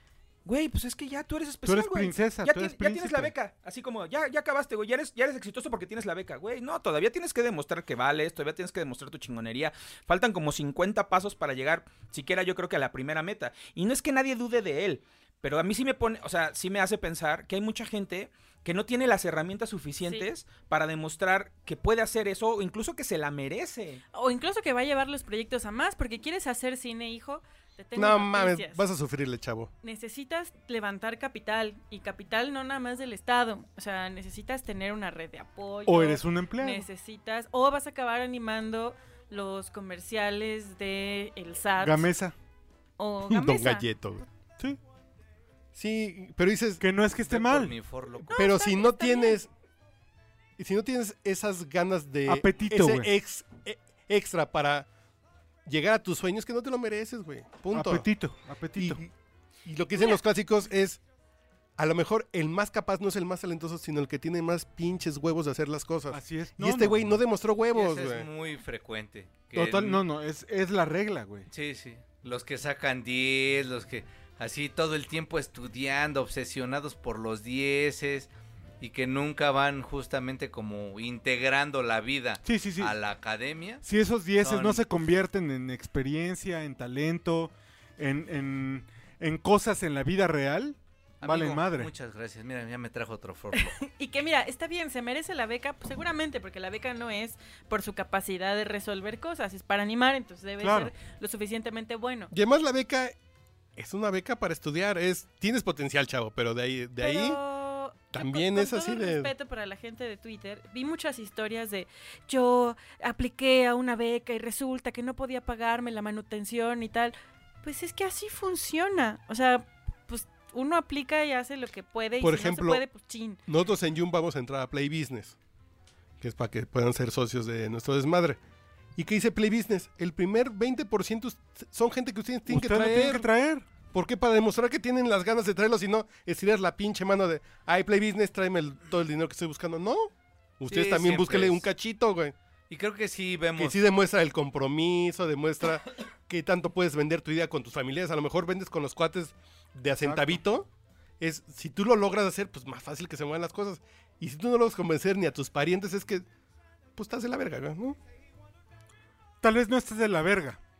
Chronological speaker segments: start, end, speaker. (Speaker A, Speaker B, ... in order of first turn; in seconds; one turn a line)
Speaker A: 0.4-24.0
Speaker B: 1.6-3.3
Speaker C: 24.1-28.8
Speaker D: 27.9-29.7
Speaker C: 29.8-42.1
Speaker B: 35.9-36.9
Speaker B: 41.8-42.3
Speaker C: 43.0-43.8
Speaker D: 43.2-44.2
Speaker D: 45.7-46.8
Speaker B: 46.8-47.7
Speaker E: 47.2-48.3
Speaker C: 48.3-49.4
Speaker D: 48.3-49.5
Speaker D: 50.6-54.9
Speaker B: 52.3-53.1
Speaker D: 55.6-58.1
Speaker B: 57.7-59.0
Speaker D: 58.8-59.1
Speaker D: 59.6-61.0
Speaker D: 61.8-68.3
Speaker B: 66.1-67.1
Speaker E: 67.7-70.0
Speaker B: 69.5-71.5
Speaker E: 71.5-83.8
Speaker B: 82.4-83.0
Speaker B: 83.8-91.9
Speaker E: 84.4-84.8
Speaker E: 91.2-93.8
Speaker C: 93.5-102.3
Speaker B: 100.6-100.9
Speaker D: 102.3-103.2
Speaker D: 103.8-107.4
Speaker C: 107.0-123.4
Speaker D: 108.1-109.3
Speaker D: 122.2-122.8
Speaker D: 123.5-125.4
Speaker D: 126.2-128.4
Speaker D: 128.9-133.3
Speaker B: 132.5-133.7
Speaker D: 133.9-142.3
Speaker E: 140.7-141.7
Speaker E: 142.7-143.8
Speaker D: 143.6-150.7
Speaker B: 150.0-150.4
Speaker D: 151.2-156.2
Speaker D: 156.9-158.0
Speaker B: 159.4-160.6